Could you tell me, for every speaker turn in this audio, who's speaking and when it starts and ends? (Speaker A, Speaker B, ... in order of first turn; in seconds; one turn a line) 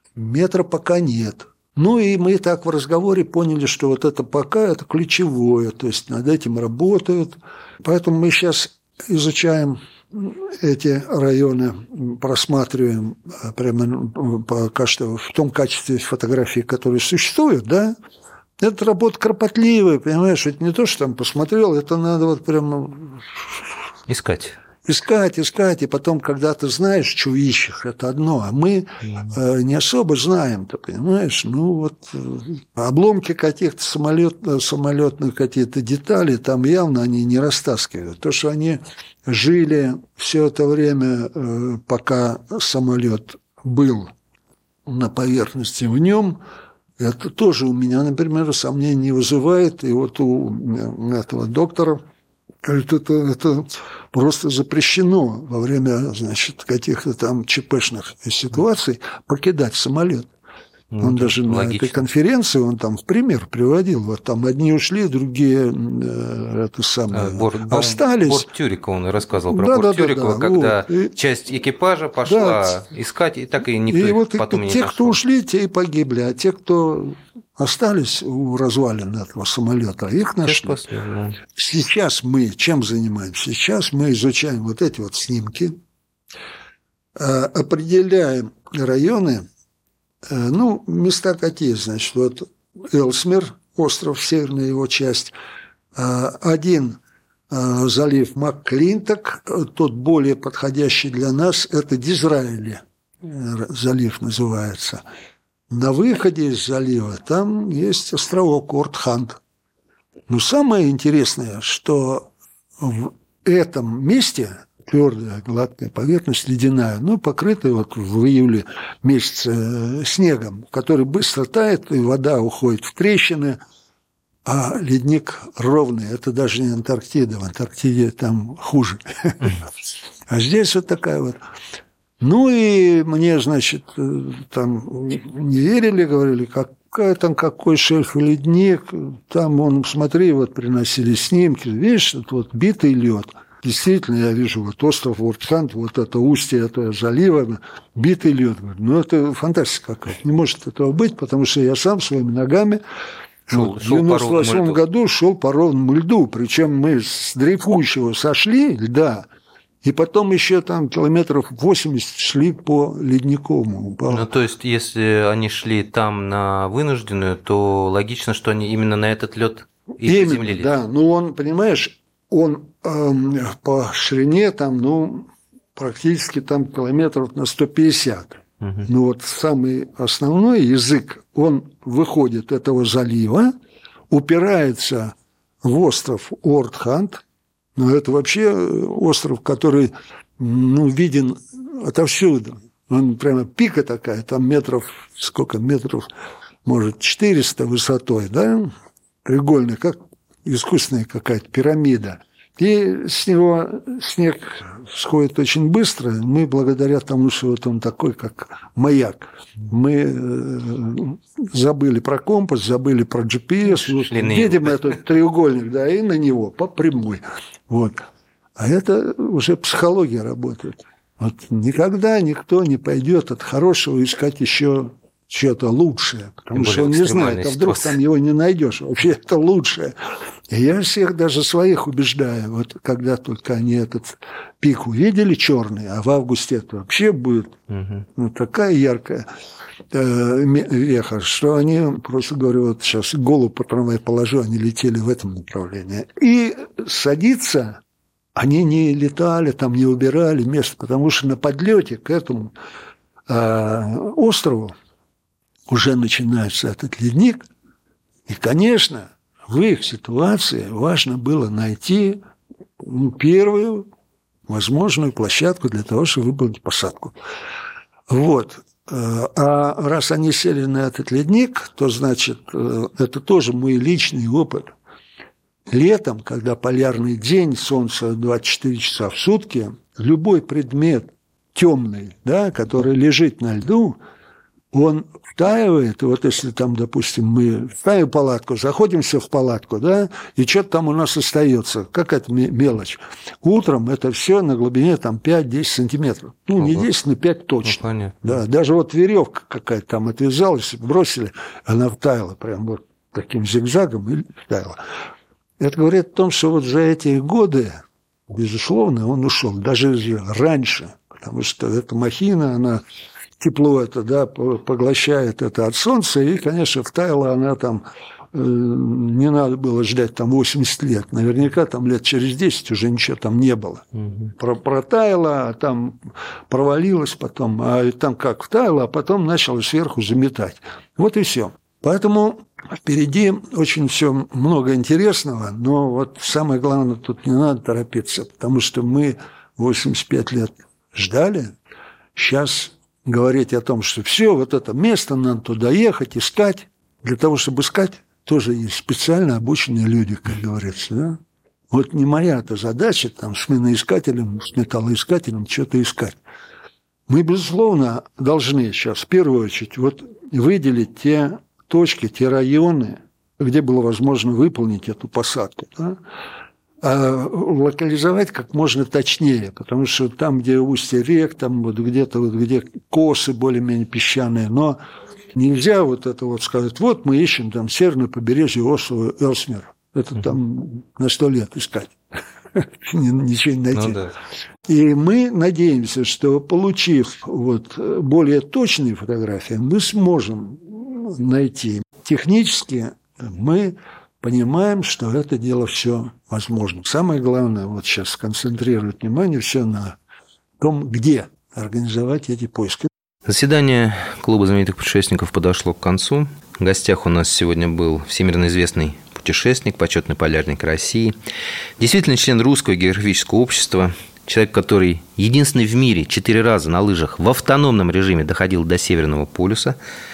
Speaker A: 0.2-17.9
Speaker A: 18.6-23.6
Speaker B: 24.1-24.6
Speaker A: 24.9-44.1
Speaker A: 44.9-46.4
Speaker A: 47.0-52.0
Speaker A: 52.6-60.3
Speaker B: 60.9-62.0
Speaker A: 61.0-68.5
Speaker B: 67.1-75.2
Speaker A: 69.5-71.1
Speaker A: 72.2-72.8
Speaker A: 73.9-80.8
Speaker B: 80.4-81.4
Speaker A: 81.5-85.8
Speaker A: 87.2-89.5
Speaker A: 90.3-95.3
Speaker A: 96.0-97.0
Speaker A: 97.5-105.0
Speaker A: 105.7-109.4
Speaker A: 110.3-123.6
Speaker A: 124.5-129.6
Speaker A: 130.3-131.4
Speaker A: 132.2-152.8
Speaker A: 153.5-159.3
Speaker B: 153.5-154.8
Speaker A: 159.8-164.3
Speaker B: 164.1-170.7
Speaker A: 170.0-183.5
Speaker A: 184.1-187.2
Speaker A: 187.8-196.1
Speaker A: 196.7-198.7
Speaker A: 199.2-218.0
Speaker B: 213.7-214.9
Speaker A: 218.6-229.9
Speaker B: 226.5-228.0
Speaker A: 230.5-237.6
Speaker B: 237.7-238.0
Speaker A: 238.2-239.3
Speaker A: 239.9-247.8
Speaker A: 248.4-252.5
Speaker A: 253.3-254.8
Speaker A: 255.7-257.4
Speaker A: 258.3-262.2
Speaker A: 262.8-263.9
Speaker A: 264.5-267.2
Speaker A: 268.1-274.7
Speaker A: 275.7-284.0
Speaker A: 284.7-304.8
Speaker B: 296.6-296.9
Speaker B: 297.6-298.3
Speaker A: 305.6-312.8
Speaker A: 313.4-341.5
Speaker A: 342.1-351.2
Speaker A: 351.7-356.2
Speaker A: 357.1-366.0
Speaker A: 366.8-374.8
Speaker A: 375.3-381.9
Speaker A: 382.5-384.0
Speaker B: 383.7-384.1
Speaker A: 384.7-400.0
Speaker A: 400.6-402.9
Speaker B: 403.3-411.2
Speaker B: 411.8-419.8